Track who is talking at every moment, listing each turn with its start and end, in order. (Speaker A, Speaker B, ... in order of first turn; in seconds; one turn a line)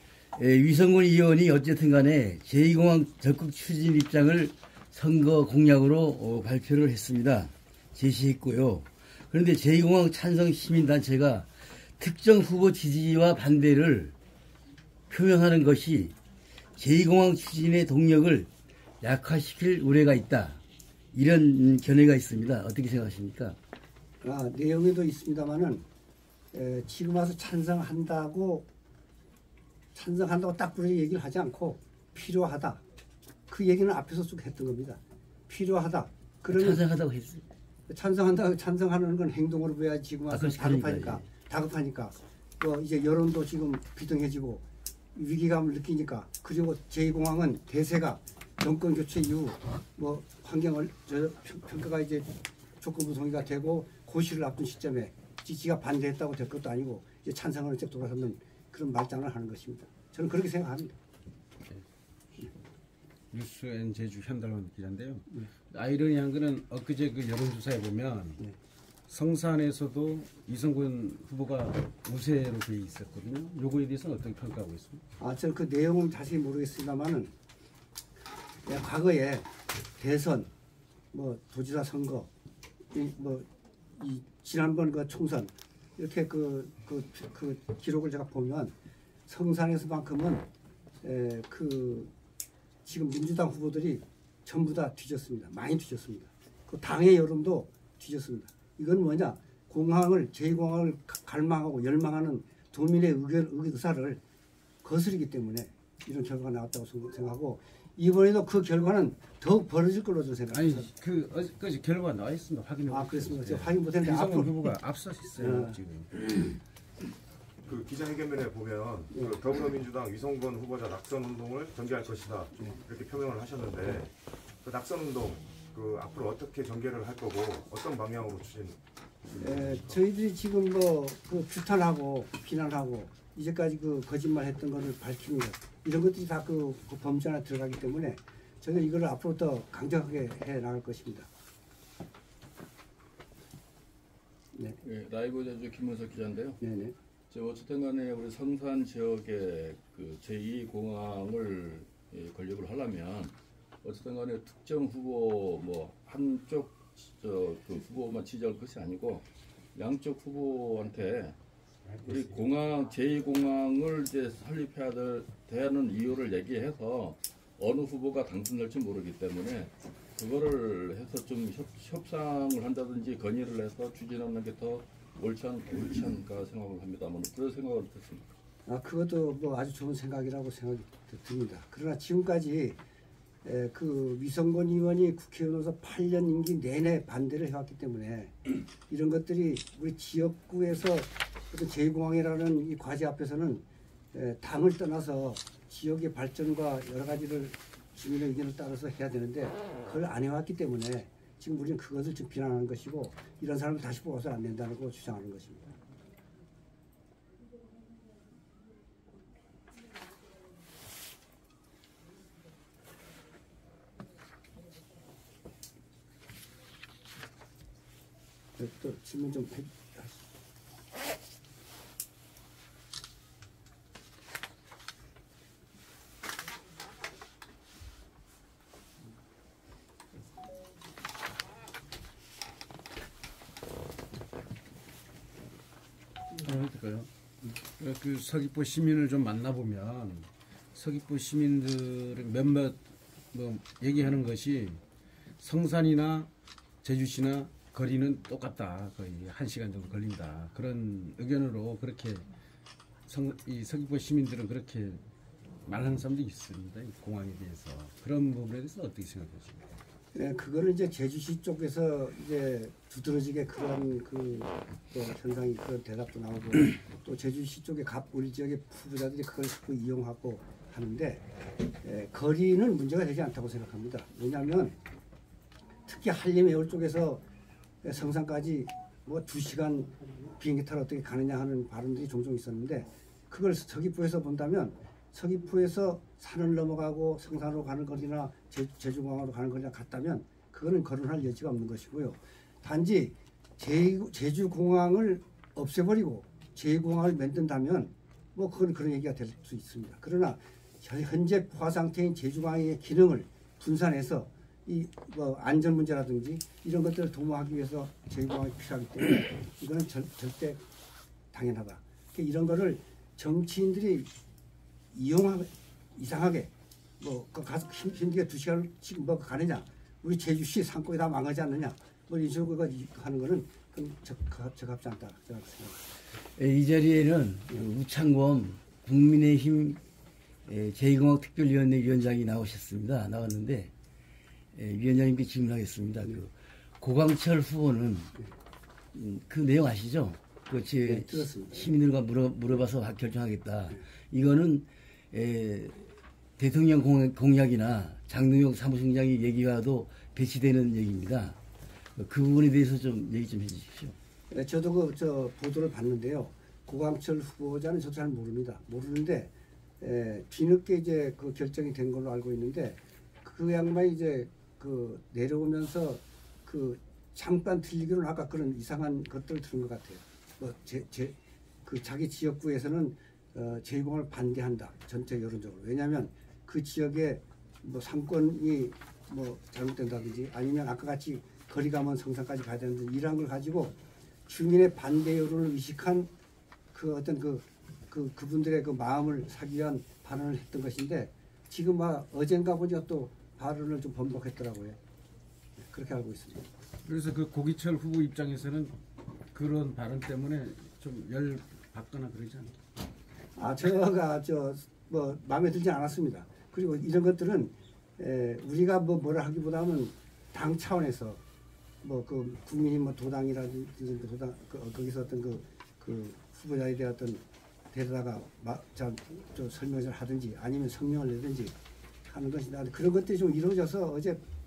Speaker A: 0.4-14.1
Speaker A: 15.1-16.1
Speaker A: 16.8-18.5
Speaker A: 19.0-20.6
Speaker A: 21.1-23.6
Speaker B: 24.2-25.8
Speaker B: 26.5-28.7
Speaker B: 29.9-32.8
Speaker B: 33.5-36.8
Speaker A: 36.5-37.4
Speaker B: 37.9-44.6
Speaker A: 40.3-41.2
Speaker B: 45.1-52.3
Speaker B: 52.8-61.0
Speaker C: 63.3-68.4
Speaker C: 69.1-75.0
Speaker B: 75.2-77.3
Speaker B: 78.7-80.5
Speaker B: 81.1-82.3
Speaker B: 82.9-88.7
Speaker B: 89.3-90.5
Speaker B: 91.0-92.1
Speaker B: 92.9-104.2
Speaker B: 104.8-110.9
Speaker C: 110.5-116.5
Speaker B: 112.9-114.6
Speaker B: 115.4-115.8
Speaker D: 117.7-128.8
Speaker B: 129.4-141.3
Speaker D: 129.5-129.9
Speaker E: 144.8-146.6
Speaker B: 146.6-146.9
Speaker E: 147.3-161.4
Speaker E: 162.0-178.3
Speaker B: 178.7-182.8
Speaker B: 183.4-205.7
Speaker B: 218.6-220.2
Speaker C: 236.3-244.8
Speaker C: 245.4-246.3
Speaker C: 246.8-252.3
Speaker C: 253.1-255.0
Speaker C: 255.6-259.6
Speaker B: 260.1-271.2
Speaker B: 271.8-274.7
Speaker B: 275.9-277.2
Speaker B: 277.8-310.6
Speaker B: 311.3-314.1
Speaker B: 314.9-325.8
Speaker A: 326.4-329.8
Speaker A: 330.5-333.7
Speaker A: 334.6-338.2
Speaker A: 338.9-351.4
Speaker B: 340.9-341.7
Speaker A: 352.0-354.0
Speaker B: 354.3-383.7
Speaker B: 384.3-386.1
Speaker B: 386.7-394.8
Speaker B: 395.6-396.5
Speaker C: 396.9-398.8
Speaker C: 399.3-402.6
Speaker B: 403.4-411.2
Speaker B: 411.8-421.5
Speaker B: 422.1-424.2